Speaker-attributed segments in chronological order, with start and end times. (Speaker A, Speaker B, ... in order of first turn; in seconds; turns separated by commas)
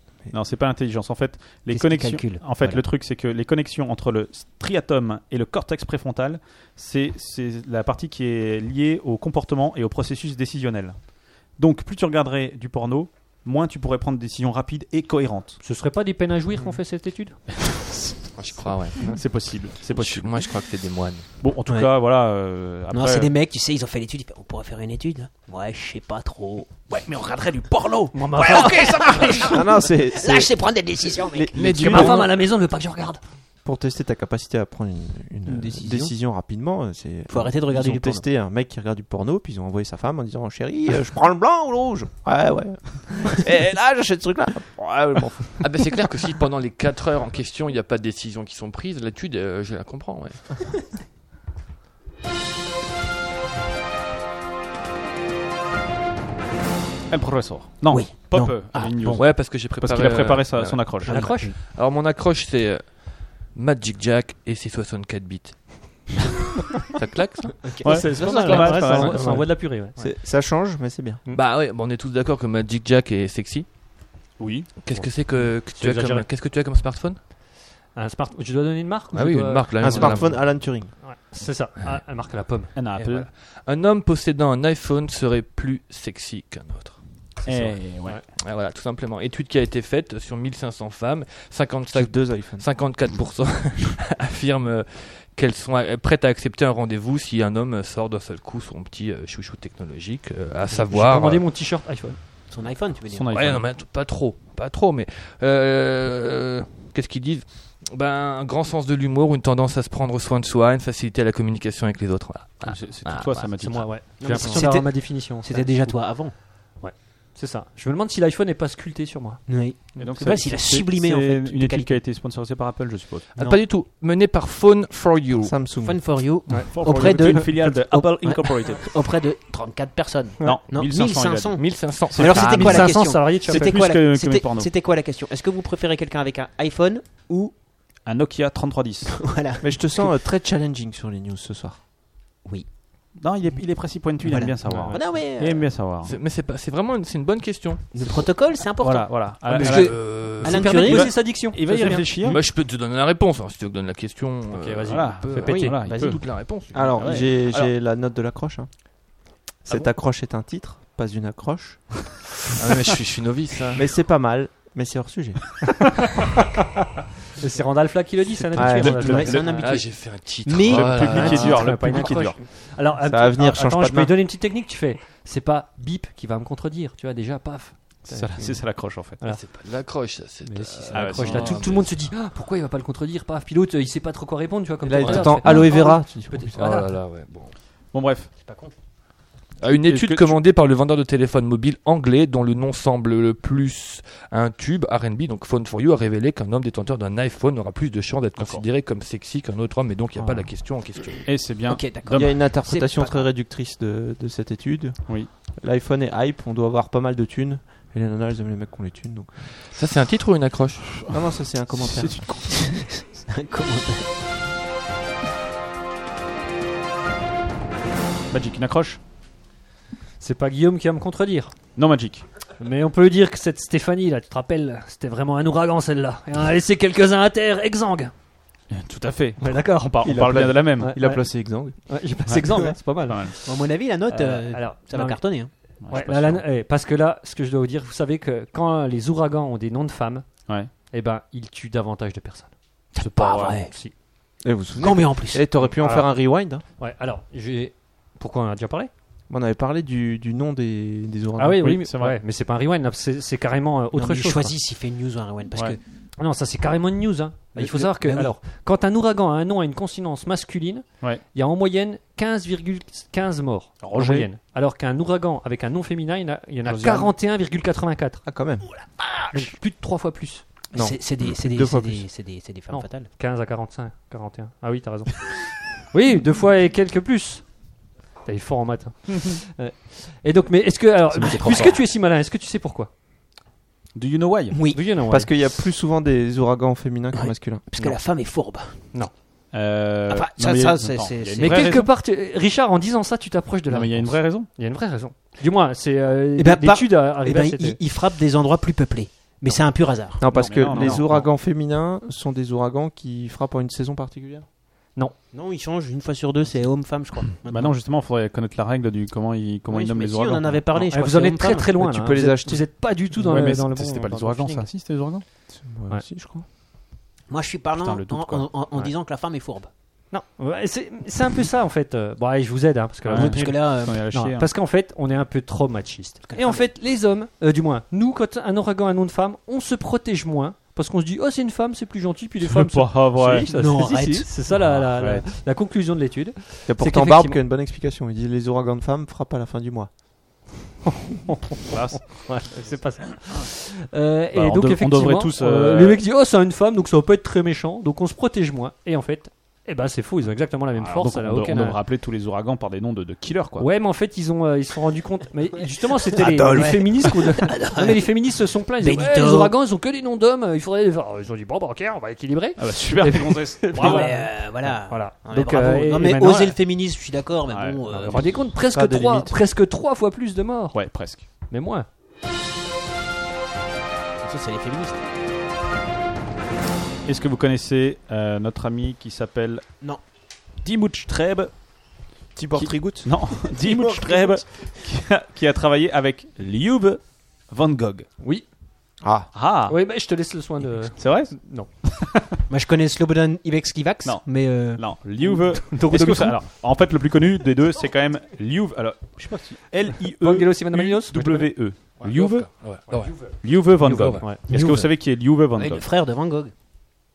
Speaker A: 0.3-15.6, Speaker B: 1.7-2.8, Speaker C: 15.6-17.4, Speaker A: 17.6-18.3, Speaker D: 18.4-19.1, Speaker A: 18.9-20.5, Speaker D: 19.9-21.3, Speaker A: 21.4-23.3, Speaker B: 22.9-26.9, Speaker A: 26.9-29.6, Speaker C: 28.1-29.3, Speaker B: 28.3-32.2, Speaker E: 29.5-32.4, Speaker C: 31.6-33.2, Speaker E: 33.6-45.6, Speaker B: 35.5-36.1, Speaker B: 37.3-38.2, Speaker D: 45.6-50.5, Speaker A: 57.1-61.5, Speaker B: 57.9-59.2, Speaker D: 59.0-66.2, Speaker C: 61.1-61.5, Speaker D: 66.9-67.7, Speaker B: 67.6-69.4, Speaker A: 67.8-69.5, Speaker C: 67.8-70.0, Speaker E: 69.3-71.2, Speaker D: 71.3-73.7, Speaker A: 74.4-74.7, Speaker D: 74.8-77.2, Speaker C: 74.9-76.3, Speaker C: 78.0-82.7, Speaker D: 79.1-80.7, Speaker E: 79.8-80.9, Speaker A: 82.7-83.3, Speaker D: 83.0-87.8, Speaker A: 87.5-88.2, Speaker D: 88.4-101.5, Speaker E: 91.9-92.7, Speaker C: 100.7-102.2, Speaker B: 102.5-103.4, Speaker A: 103.1-103.6, Speaker D: 103.3-113.5, Speaker A: 112.6-113.9, Speaker C: 113.6-116.0, Speaker B: 114.2-116.3, Speaker C: 116.8-119.4, Speaker B: 119.5-121.9, Speaker A: 120.0-123.3, Speaker D: 123.3-125.6, Speaker E: 125.4-126.2, Speaker B: 125.8-137.6, Speaker C: 126.5-127.6, Speaker A: 126.7-128.9, Speaker A: 130.4-134.7, Speaker D: 131.6-133.0, Speaker C: 132.3-133.7, Speaker A: 138.1-139.2, Speaker B: 139.2-140.1, Speaker E: 139.6-141.8, Speaker A: 143.2-146.1, Speaker B: 144.2-145.7, Speaker C: 144.7-145.0, Speaker D: 146.0-148.3, Speaker B: 147.9-151.3, Speaker A: 148.8-150.3, Speaker C: 149.6-152.1, Speaker D: 149.6-150.8, Speaker A: 150.8-152.4, Speaker D: 152.2-157.0, Speaker C: 154.5-155.8, Speaker A: 154.9-156.2, Speaker B: 155.5-156.2, Speaker E: 156.7-158.7, Speaker A: 156.8-157.7, Speaker E: 159.7-162.1, Speaker D: 162.6-163.9, Speaker E: 163.7-165.8, Speaker C: 167.4-169.5, Speaker E: 168.5-169.2, Speaker A: 168.6-169.7, Speaker B: 168.9-171.5, Speaker D: 169.5-171.7, Speaker A: 170.6-172.4, Speaker C: 171.0-178.3, Speaker E: 173.0-174.2, Speaker A: 178.1-179.2, Speaker D: 179.2-182.1, Speaker C: 180.4-186.9, Speaker A: 180.9-181.7, Speaker E: 184.8-186.7, Speaker D: 185.0-185.8, Speaker D: 186.5-187.6, Speaker A: 187.9-188.3, Speaker B: 188.4-188.7, Speaker D: 189.6-201.3, Speaker A: 189.8-190.4, Speaker A: 198.4-198.6, Speaker A: 201.3-202.4, Speaker B: 201.7-203.3, Speaker E: 202.1-209.5, Speaker D: 209.7-211.1, Speaker E: 211.1-212.2, Speaker A: 211.8-212.5, Speaker B: 212.4-214.1, Speaker A: 218.3-219.0, Speaker C: 220.2-221.6, Speaker A: 221.8-222.2, Speaker C: 222.6-228.1, Speaker A: 228.7-231.0, Speaker C: 229.4-233.5, Speaker E: 230.0-231.8, Speaker A: 232.3-233.4, Speaker B: 233.4-235.5, Speaker C: 234.1-235.2, Speaker A: 235.8-236.4, Speaker C: 235.9-240.3, Speaker C: 240.9-242.5, Speaker B: 242.9-243.7, Speaker A: 243.0-243.7, Speaker E: 244.4-246.6, Speaker B: 244.8-245.4, Speaker C: 245.6-248.9, Speaker E: 249.3-251.8, Speaker C: 251.4-254.5, Speaker A: 251.6-252.2, Speaker B: 253.9-255.8, Speaker C: 256.2-268.2, Speaker B: 257.6-258.3, Speaker A: 263.8-264.3, Speaker A: 266.7-267.1, Speaker E: 268.2-268.7, Speaker C: 269.3-270.4, Speaker E: 270.7-272.1, Speaker B: 270.7-273.1, Speaker C: 272.7-277.4, Speaker C: 278.2-282.9, Speaker A: 281.1-281.8, Speaker B: 281.2-281.8, Speaker A: 283.9-284.6, Speaker B: 284.5-284.9, Speaker C: 284.7-285.3, Speaker E: 285.1-287.6, Speaker B: 287.1-288.9, Speaker A: 289.5-291.9, Speaker B: 290.1-291.8, Speaker C: 291.4-297.8, Speaker A: 293.7-294.5, Speaker B: 296.4-300.2, Speaker E: 300.2-304.4, Speaker A: 300.3-301.3, Speaker B: 305.3-307.7, Speaker A: 307.4-310.6, Speaker B: 309.7-311.7, Speaker C: 310.8-314.7, Speaker E: 311.8-312.7, Speaker A: 313.1-315.2, Speaker E: 315.5-316.4, Speaker B: 317.3-319.7, Speaker A: 317.7-318.9, Speaker C: 320.1-337.4, Speaker A: 323.1-324.5, Speaker B: 323.1-324.0, Speaker B: 326.3-326.7, Speaker A: 332.4-333.5, Speaker B: 333.4-334.3, Speaker A: 334.5-335.2, Speaker E: 336.7-339.9, Speaker C: 340.9-351.8, Speaker A: 341.7-343.5, Speaker A: 344.3-346.0, Speaker A: 350.8-353.7, Speaker C: 353.6-366.6, Speaker B: 356.0-358.1, Speaker B: 358.8-359.5, Speaker A: 362.6-364.1, Speaker B: 363.7-368.4, Speaker A: 367.5-368.3, Speaker C: 368.0-370.9, Speaker E: 368.7-369.4, Speaker A: 370.7-371.2, Speaker C: 371.5-371.9, Speaker B: 374.2-375.0, Speaker A: 377.1-379.6, Speaker A: 380.6-381.5, Speaker E: 382.4-384.4, Speaker A: 382.6-388.1, Speaker E: 389.0-389.3, Speaker A: 389.3-389.8, Speaker C: 389.7-391.7, Speaker A: 390.9-392.3, Speaker B: 392.5-396.4, Speaker A: 394.0-402.5, Speaker C: 400.2-401.4, Speaker D: 402.0-404.4, Speaker C: 402.9-403.2, Speaker A: 403.2-405.8, Speaker B: 404.5-404.9, Speaker B: 405.6-406.5